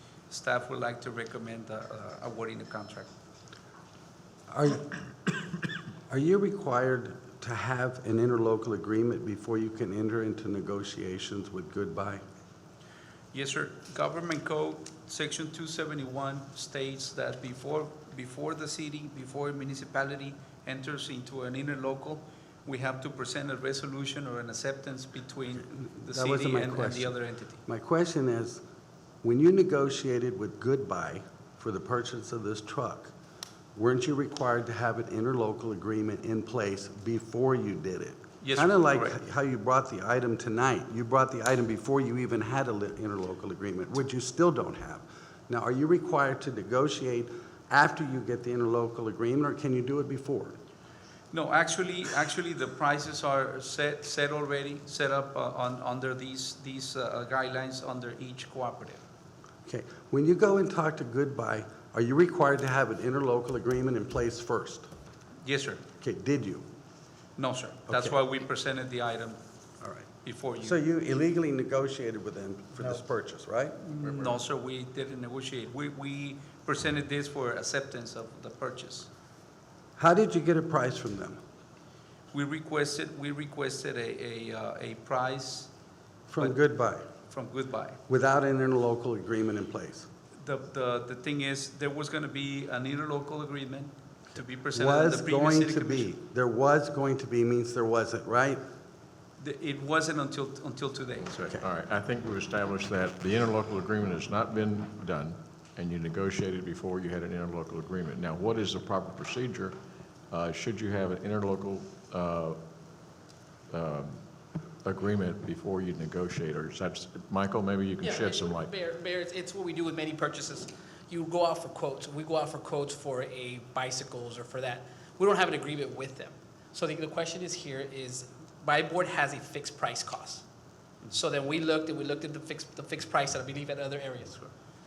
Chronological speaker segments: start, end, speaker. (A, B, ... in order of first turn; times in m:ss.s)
0:00.3-0:03.1 A
0:04.5-0:05.5 B
0:06.1-0:12.2 B
0:13.3-0:27.6 A
0:25.7-0:27.2 B
0:27.7-0:28.6 B
0:29.2-0:33.1 B
0:33.8-0:50.6 B
0:38.4-0:39.2 A
0:51.3-0:59.0 A
0:59.7-1:04.9 B
1:05.4-1:05.8 A
1:06.0-1:06.6 B
1:07.4-1:09.4 A
1:07.9-1:08.2 B
1:09.8-1:10.1 B
1:10.2-1:10.8 A
1:10.6-1:13.8 B
1:13.8-1:19.1 A
1:20.0-1:21.4 B
1:22.3-1:25.7 A
1:26.3-1:27.0 B
1:27.3-1:28.0 A
1:28.1-1:30.1 B
1:30.4-1:36.1 A
1:34.7-1:38.6 B
1:39.4-1:41.6 A
1:41.6-1:49.8 C
1:50.3-1:52.6 C
1:53.7-1:54.2 C
1:54.8-1:58.7 C
1:58.0-2:10.4 D
2:11.1-2:14.5 D